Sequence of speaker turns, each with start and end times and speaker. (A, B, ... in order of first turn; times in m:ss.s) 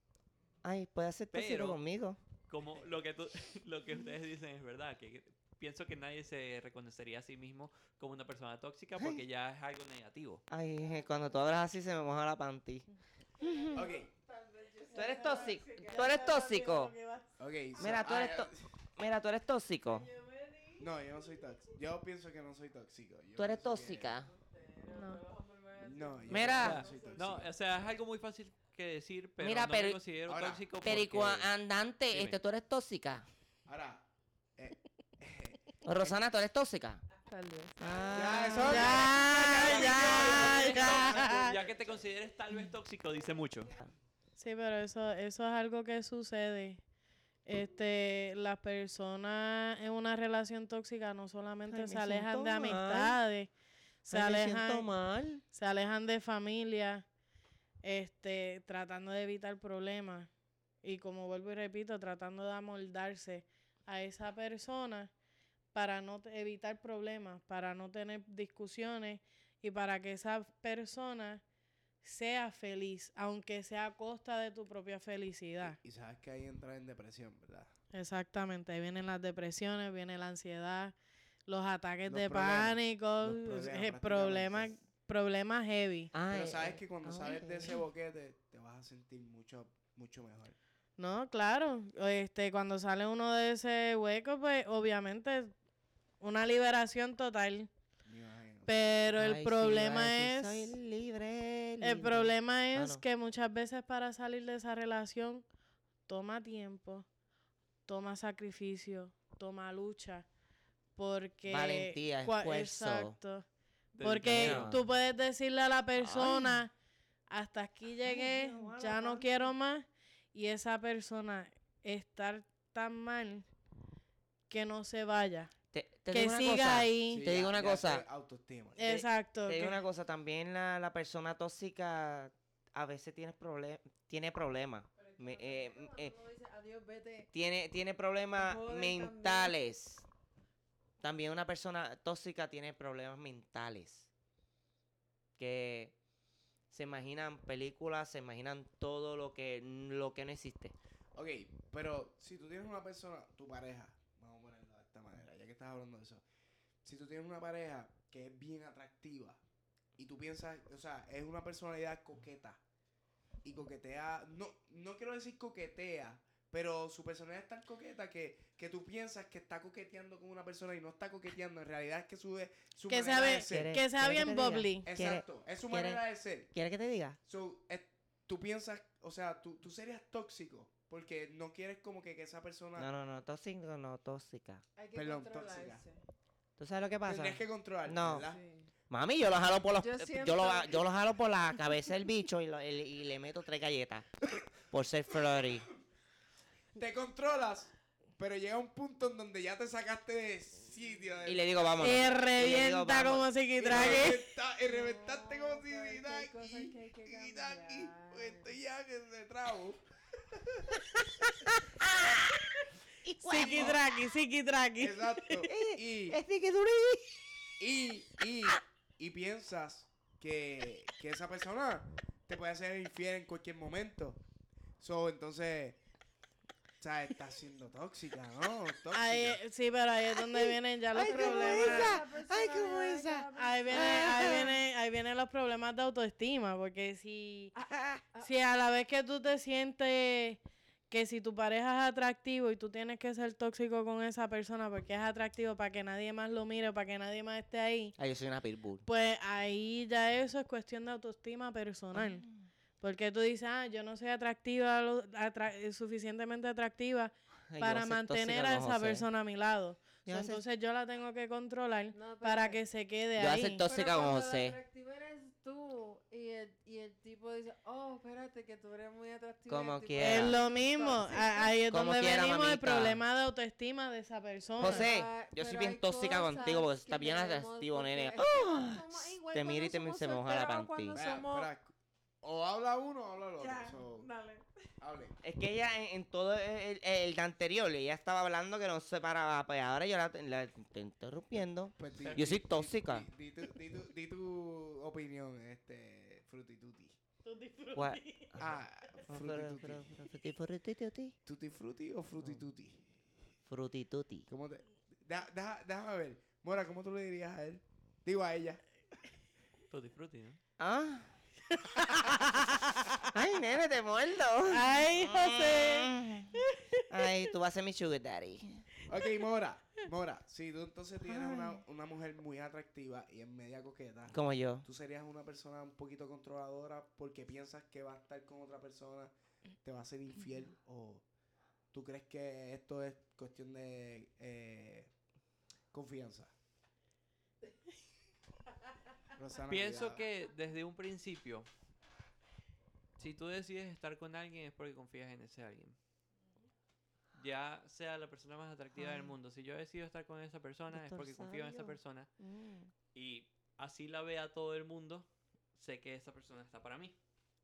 0:00.6-0:02.2 A
0:01.3-0:01.8 B
0:02.5-0:10.4 B
0:10.5-0:12.9 A
0:13.4-0:16.6 C
0:13.4-0:13.8 A
0:13.7-0:14.1 D
0:14.9-0:16.9 A
0:14.9-0:17.3 E
0:17.4-0:18.7 D
0:17.8-0:20.0 A
0:19.8-0:20.9 C
0:20.8-0:24.2 D
0:23.4-0:24.3 A
0:24.2-0:27.4 C
0:24.9-0:25.2 E
0:25.8-0:27.5 D
0:26.3-0:26.8 A
0:26.5-0:31.5 B
0:29.4-0:30.0 A
0:30.3-0:30.6 D
0:30.8-0:33.3 A
0:32.1-0:32.4 B
0:33.6-0:34.0 D
0:34.6-0:36.2 D
0:35.8-0:37.0 A
0:37.1-0:39.5 C
0:37.8-0:40.7 A
0:38.1-0:41.8 D
0:38.4-0:41.5 E
0:39.5-0:43.7 B
0:44.4-0:46.8 E
0:47.4-0:53.5 E
0:51.7-0:53.2 A
0:54.0-0:54.8 E
0:54.1-0:55.4 A
0:55.5-0:57.0 E
0:57.8-1:00.3 E
1:00.8-1:05.1 E
1:05.7-1:11.4 E
1:12.0-1:15.8 E
1:15.6-1:17.7 D
1:17.9-1:20.9 E
1:21.5-1:26.1 E
1:22.0-1:24.8 D
1:26.1-1:27.8 A
1:26.3-1:30.6 D
1:31.0-1:35.5 E
1:36.2-1:37.7 E
1:38.0-1:38.8 D
1:38.7-1:40.7 E
1:39.1-1:43.0 A
1:41.8-1:45.4 E
1:46.1-1:47.0 E
1:47.9-1:50.2 E
1:51.0-1:53.4 E
1:51.5-1:53.1 A
1:53.9-1:54.7 B
1:54.0-1:56.7 E
1:54.3-1:54.8 A
1:56.0-1:56.6 A
1:57.3-2:03.5 E
1:58.0-1:59.5 A
2:04.5-2:05.5 E
2:05.7-2:08.0 A
2:06.1-2:07.2 E
2:07.1-2:08.8 D
2:08.8-2:09.8 E
2:08.8-2:16.1 A
2:14.9-2:17.3 C
2:17.3-2:20.0 A
2:18.3-2:19.5 C
2:21.0-2:24.1 A
2:25.4-2:25.9 A
2:26.7-2:30.7 A
2:31.1-2:36.2 D
2:36.8-2:39.4 D
2:40.0-2:42.6 D
2:43.4-2:53.8 D
2:52.9-2:54.9 E
2:53.4-2:56.0 A
2:54.8-2:56.5 D
2:56.5-2:57.2 A
2:57.2-3:02.9 D
3:02.8-3:04.6 A
3:04.8-3:06.0 C
3:04.9-3:05.8 D
3:06.6-3:08.3 A
3:07.0-3:08.4 D
3:08.2-3:08.7 C
3:08.9-3:14.1 A
3:09.8-3:10.8 C
3:14.7-3:15.7 A
3:16.8-3:21.5 D
3:21.2-3:24.1 A
3:21.8-3:24.2 E
3:23.6-3:30.8 D
3:24.6-3:28.5 C
3:31.8-3:32.3 A
3:33.0-3:33.8 A
3:33.2-3:35.2 E
3:33.4-3:33.8 D
3:34.8-3:36.2 D
3:35.4-3:37.2 A
3:37.6-3:44.2 D
3:44.8-3:45.8 D
3:46.8-3:49.4 D
3:48.9-3:52.0 E
3:50.2-3:54.5 A
3:51.0-3:54.6 C
3:53.4-3:57.5 E
3:57.5-3:58.3 C
3:57.6-3:58.0 A
3:58.2-4:07.9 E
4:08.0-4:08.8 A
4:08.8-4:12.2 E
4:11.9-4:12.5 A
4:12.8-4:23.6 E
4:17.5-4:19.0 A
4:20.0-4:20.4 A
4:21.9-4:22.6 C
4:23.2-4:24.6 A
4:23.6-4:31.6 C
4:29.5-4:30.4 A
4:30.0-4:34.9 E
4:31.7-4:33.0 A
4:34.6-4:41.0 A
4:34.6-4:41.5 C
4:40.9-4:44.1 D
4:43.4-4:44.4 C
4:44.8-4:45.2 D
4:45.2-4:53.0 A
4:51.8-4:57.0 D
4:52.0-4:52.4 B
4:57.2-4:58.4 E
4:57.7-4:58.5 A
4:58.4-4:59.8 D
4:59.1-5:01.2 A
5:01.2-5:02.8 D
5:03.4-5:04.3 A
5:04.3-5:08.6 D
5:09.7-5:10.4 B
5:10.6-5:11.1 A
5:11.5-5:12.8 E
5:11.8-5:12.3 D
5:12.9-5:16.3 A
5:14.5-5:16.9 E
5:16.9-5:18.7 A
5:18.9-5:29.1 D
5:21.0-5:21.6 A
5:24.1-5:24.6 A
5:29.6-5:31.0 D
5:31.7-5:34.9 D
5:35.7-5:36.3 D
5:39.1-5:40.0 D
5:39.5-5:41.5 B
5:43.0-5:45.8 B
5:47.2-5:52.1 B
5:48.7-5:49.1 A
5:50.7-5:52.7 A
5:52.9-5:57.0 B